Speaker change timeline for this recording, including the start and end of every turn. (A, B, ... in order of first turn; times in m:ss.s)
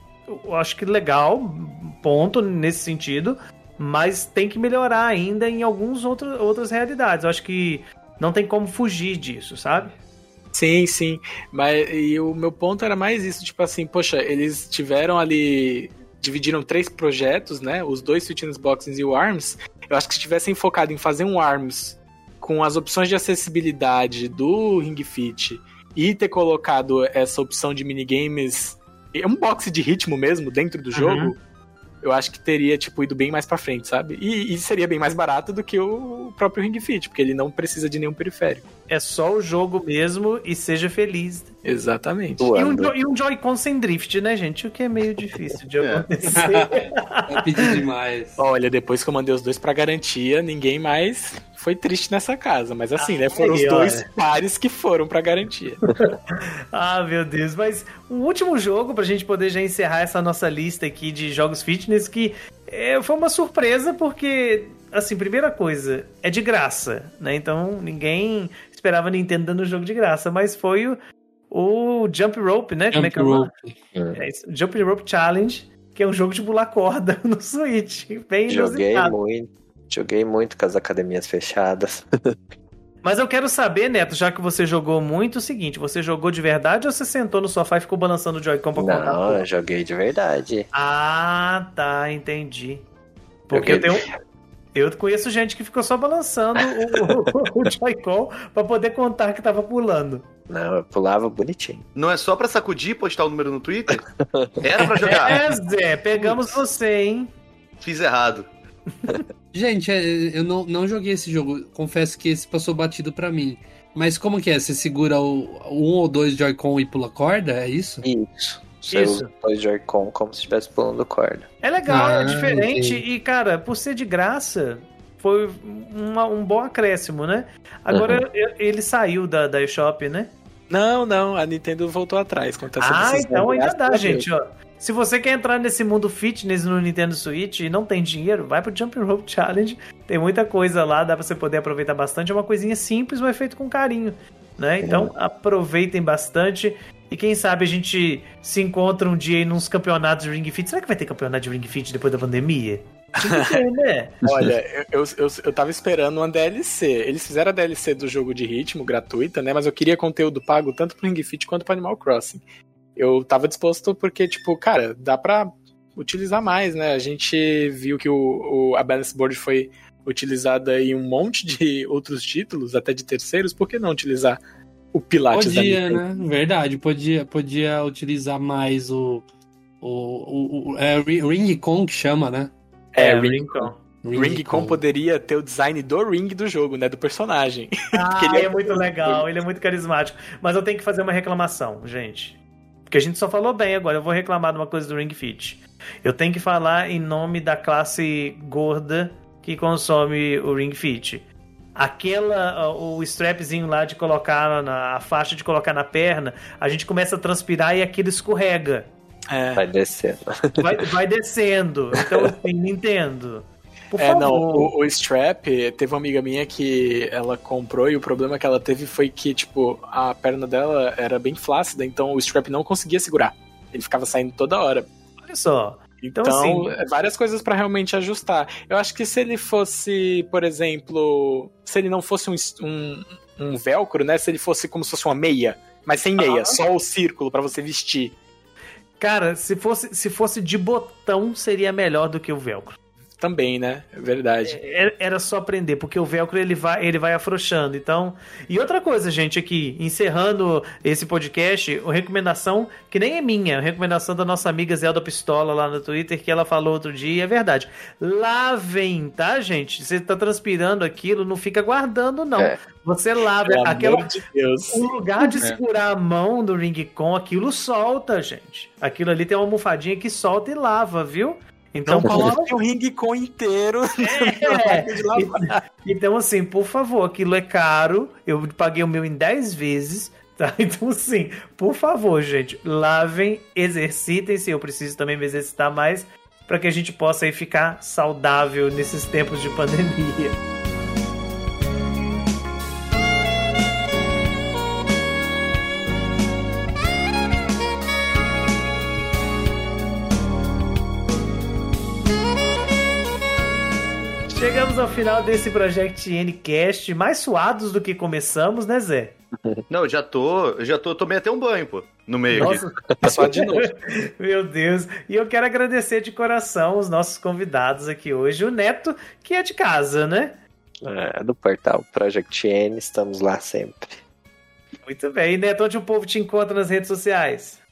0:00.3-0:10.0 A
0:10.5-0:31.4 B
0:30.9-0:31.3 A
0:32.0-0:38.7 B
0:38.9-0:41.5 A
0:41.6-0:42.5 B
0:42.4-0:43.0 C
0:42.5-0:47.8 A
0:45.8-0:46.1 D
0:46.2-0:48.4 E
0:48.4-0:55.8 B
0:53.0-0:54.0 A
0:55.9-1:11.0 A
1:11.5-1:13.5 A
1:12.9-1:13.8 E
1:14.1-1:19.2 A
1:18.5-1:22.3 C
1:23.0-1:29.4 A
1:28.8-1:30.7 C
1:30.7-1:32.8 A
1:33.5-1:34.1 A
1:33.5-1:34.0 C
1:34.7-1:40.2 A
1:37.0-1:37.7 C
1:40.5-1:41.8 C
1:41.9-1:44.0 D
1:43.9-1:44.7 C
1:44.6-1:45.4 D
1:45.0-1:47.3 A
1:47.8-1:48.5 D
1:49.5-1:58.0 E
1:58.0-2:01.5 C
1:58.9-1:59.3 A
2:01.6-2:10.3 A
2:01.9-2:03.0 E
2:07.9-2:08.2 C
2:10.7-2:14.2 B
2:12.8-2:34.2 A
2:24.8-2:25.1 C
2:33.3-2:33.6 B
2:34.2-2:42.4 B
2:43.0-2:54.4 B
2:54.9-2:56.0 B
2:55.3-2:59.2 E
2:59.8-3:02.5 E
3:03.0-3:09.3 B
3:03.0-3:03.8 A
3:04.0-3:04.8 E
3:07.9-3:28.9 A
3:29.3-3:29.6 B
3:29.5-3:30.7 C
3:30.6-3:34.7 A
3:34.0-3:44.9 B
3:45.2-3:46.7 A
3:46.0-3:58.2 B
3:56.2-3:56.6 A
3:59.0-4:02.8 A
4:03.2-4:04.6 B
4:04.4-4:24.1 A
4:23.4-4:24.8 B
4:24.7-4:32.5 A
4:31.9-4:35.6 B
4:34.0-4:50.4 A
5:04.3-5:09.2 A
5:09.7-5:12.6 D
5:12.3-5:20.4 A
5:13.0-5:13.7 B
5:20.8-5:24.0 C
5:24.8-5:27.6 A